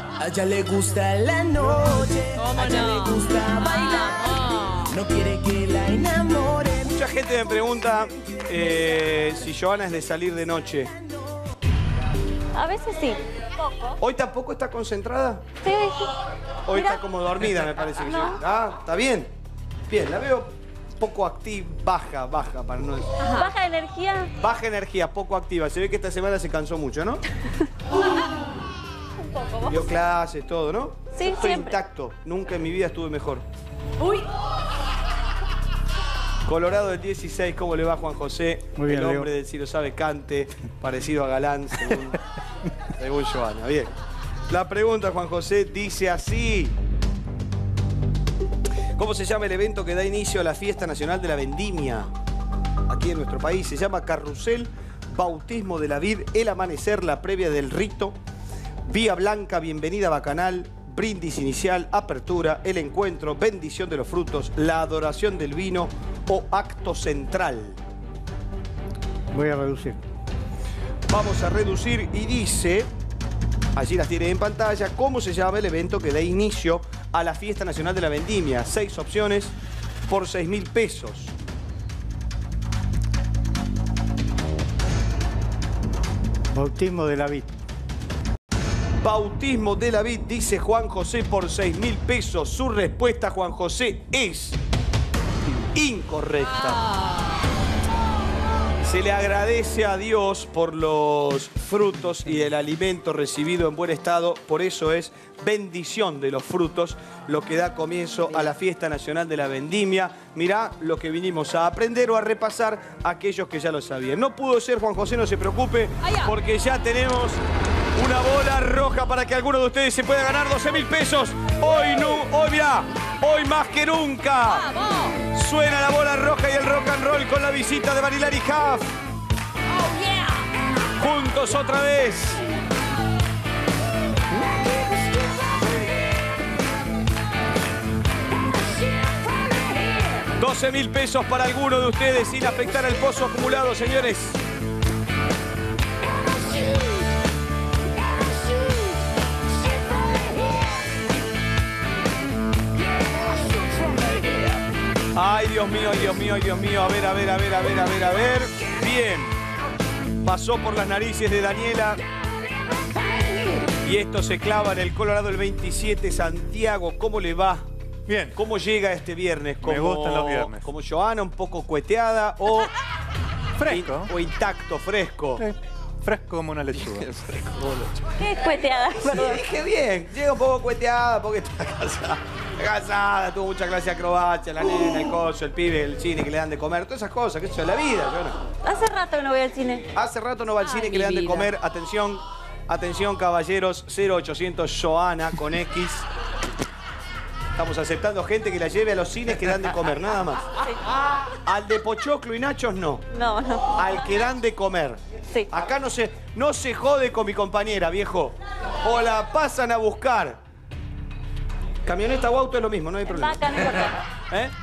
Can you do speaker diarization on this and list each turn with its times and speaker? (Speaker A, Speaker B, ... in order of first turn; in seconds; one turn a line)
Speaker A: 0.2-7.0
Speaker B: 2.4-4.9
Speaker C: 6.8-10.9
Speaker D: 12.6-14.0
Speaker C: 14.0-15.5
Speaker D: 15.6-16.1
Speaker C: 16.7-19.3
Speaker D: 16.7-17.0
Speaker D: 18.0-18.4
Speaker C: 19.9-23.2
Speaker D: 23.2-24.3
Speaker B: 23.2-23.5
Speaker C: 24.4-27.2
Speaker D: 29.2-29.9
Speaker C: 29.7-33.5
Speaker D: 31.2-31.8
Speaker B: 34.0-34.2
Speaker C: 36.5-42.2
Speaker E: 38.8-39.3
Speaker C: 42.9-43.9
Speaker C: 44.5-46.8
Speaker C: 49.0-52.1
Speaker C: 52.9-58.2
Speaker C: 58.9-67.8
Speaker E: 69.3-70.0
Speaker C: 71.1-72.9
Speaker C: 73.8-79.5
Speaker C: 80.1-81.3
Speaker E: 86.5-87.5
Speaker C: 89.0-94.6
Speaker C: 95.7-96.8
Speaker B: 96.4-97.5
Speaker C: 98.8-117.4
Speaker B: 116.0-116.3
Speaker C: 118.0-124.7
Speaker B: 124.5-125.2
Speaker C: 125.3-129.0
Speaker B: 129.8-130.4
Speaker C: 131.0-132.4
Speaker C: 140.3-144.4
Speaker C: 155.1-159.3
Speaker C: 160.2-162.0
Speaker C: 163.8-167.7
Speaker F: 168.1-168.4
Speaker C: 168.3-172.7
Speaker F: 169.6-170.7
Speaker F: 173.6-174.1
Speaker C: 173.6-175.4
Speaker F: 175.4-177.1
Speaker C: 176.8-178.2
Speaker D: 178.2-179.4
Speaker C: 178.9-188.4
Speaker D: 188.7-189.9
Speaker C: 189.9-196.1
Speaker B: 190.6-191.5
Speaker C: 197.6-200.5
Speaker C: 201.5-203.1
Speaker D: 203.1-204.1
Speaker C: 203.7-210.4
Speaker C: 211.9-214.5
Speaker D: 213.1-214.0